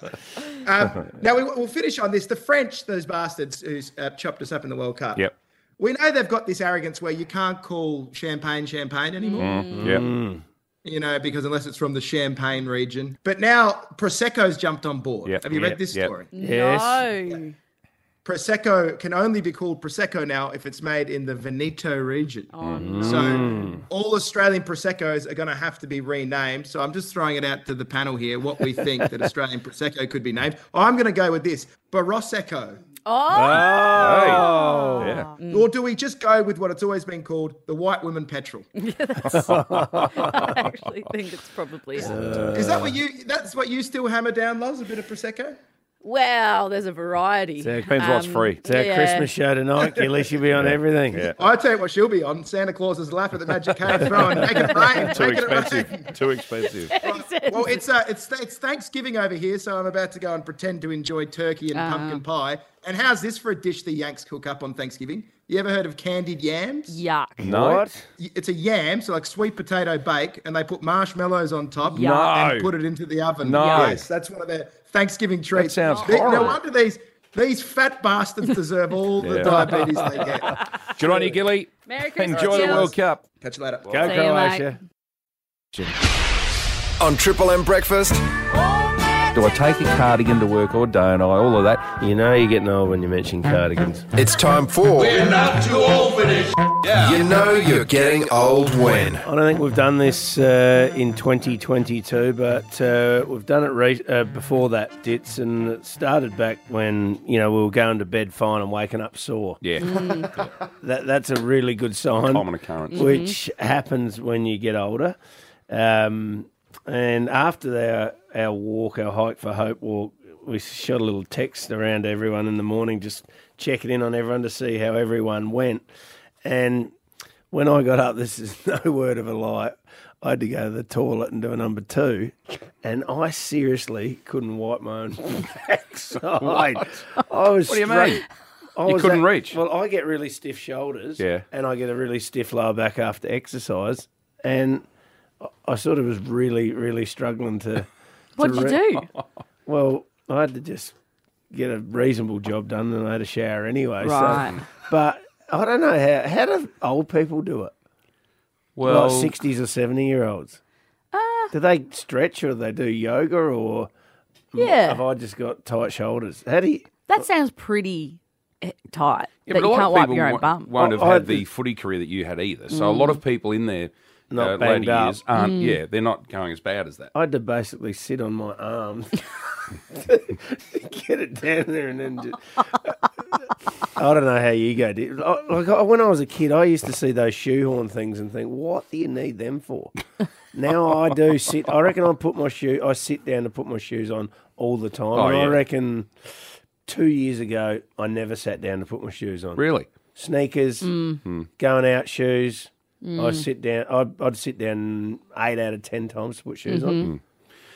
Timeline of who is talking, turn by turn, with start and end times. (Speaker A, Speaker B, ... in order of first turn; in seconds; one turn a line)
Speaker A: 0.6-5.3
Speaker A: 5.8-9.6
Speaker B: 9.2-10.0
Speaker C: 9.4-10.1
Speaker D: 9.7-10.4
Speaker A: 10.8-16.3
Speaker C: 15.2-16.1
Speaker B: 16.3-17.6
Speaker D: 16.4-17.0
Speaker A: 18.2-22.5
Speaker B: 22.5-23.8
Speaker C: 22.6-22.9
Speaker D: 22.8-23.8
Speaker A: 23.0-32.8
Speaker B: 33.1-35.7
Speaker D: 33.3-35.2
Speaker C: 33.6-35.3
Speaker A: 35.5-38.7
Speaker B: 38.8-42.1
Speaker D: 39.4-40.3
Speaker D: 42.0-43.0
Speaker C: 42.1-42.7
Speaker A: 42.5-45.6
Speaker B: 46.0-49.3
Speaker D: 47.6-48.1
Speaker C: 47.9-48.6
Speaker D: 48.6-51.3
Speaker C: 50.5-51.4
Speaker A: 51.4-56.1
Speaker D: 54.2-54.6
Speaker C: 55.0-57.0
Speaker B: 56.7-57.9
Speaker A: 57.0-67.0
Speaker B: 61.7-62.2
Speaker B: 66.9-67.5
Speaker C: 67.4-67.8
Speaker D: 67.4-68.0
Speaker A: 68.2-80.5
Speaker B: 71.9-72.3
Speaker C: 72.0-72.7
Speaker C: 73.4-74.0
Speaker B: 73.6-74.0
Speaker C: 75.5-76.6
Speaker B: 75.8-76.6
Speaker C: 79.2-79.8
Speaker D: 79.5-80.3
Speaker C: 81.0-83.2
Speaker B: 81.9-82.9
Speaker A: 82.3-84.1
Speaker D: 83.9-84.8
Speaker B: 84.0-84.7
Speaker E: 87.0-88.2
Speaker C: 89.3-91.9
Speaker D: 92.0-94.0
Speaker E: 94.2-99.3
Speaker C: 96.8-97.1
Speaker D: 99.2-110.0
Speaker C: 109.6-109.9
Speaker B: 109.8-110.3
Speaker D: 110.8-115.2
Speaker C: 112.3-113.2
Speaker B: 112.9-113.3
Speaker D: 115.7-125.8
Speaker D: 126.4-126.9
Speaker D: 127.5-138.2
Speaker C: 136.4-136.8
Speaker C: 137.7-138.2
Speaker D: 138.8-144.8
Speaker C: 138.9-139.6
Speaker C: 141.2-141.4
Speaker D: 145.4-148.8
Speaker B: 148.4-149.1
Speaker D: 149.7-150.9
Speaker D: 151.5-157.7
Speaker B: 154.0-154.6
Speaker C: 158.8-159.3
Speaker D: 158.8-160.6
Speaker B: 161.1-161.5
Speaker D: 161.5-163.9
Speaker D: 164.5-166.9
Speaker B: 164.6-165.0
Speaker B: 167.1-170.7
Speaker C: 169.5-177.1
Speaker D: 170.8-171.4
Speaker B: 172.7-173.2
Speaker D: 174.3-175.2
Speaker B: 175.3-175.8
Speaker D: 177.1-179.2
Speaker D: 179.9-182.4
Speaker D: 184.0-189.9
Speaker D: 190.5-196.1
Speaker C: 195.1-195.6
Speaker D: 196.9-199.6
Speaker C: 199.6-199.9
Speaker D: 200.2-200.9
Speaker B: 200.8-201.2
Speaker D: 201.6-207.1
Speaker B: 203.0-203.5
Speaker B: 206.7-207.1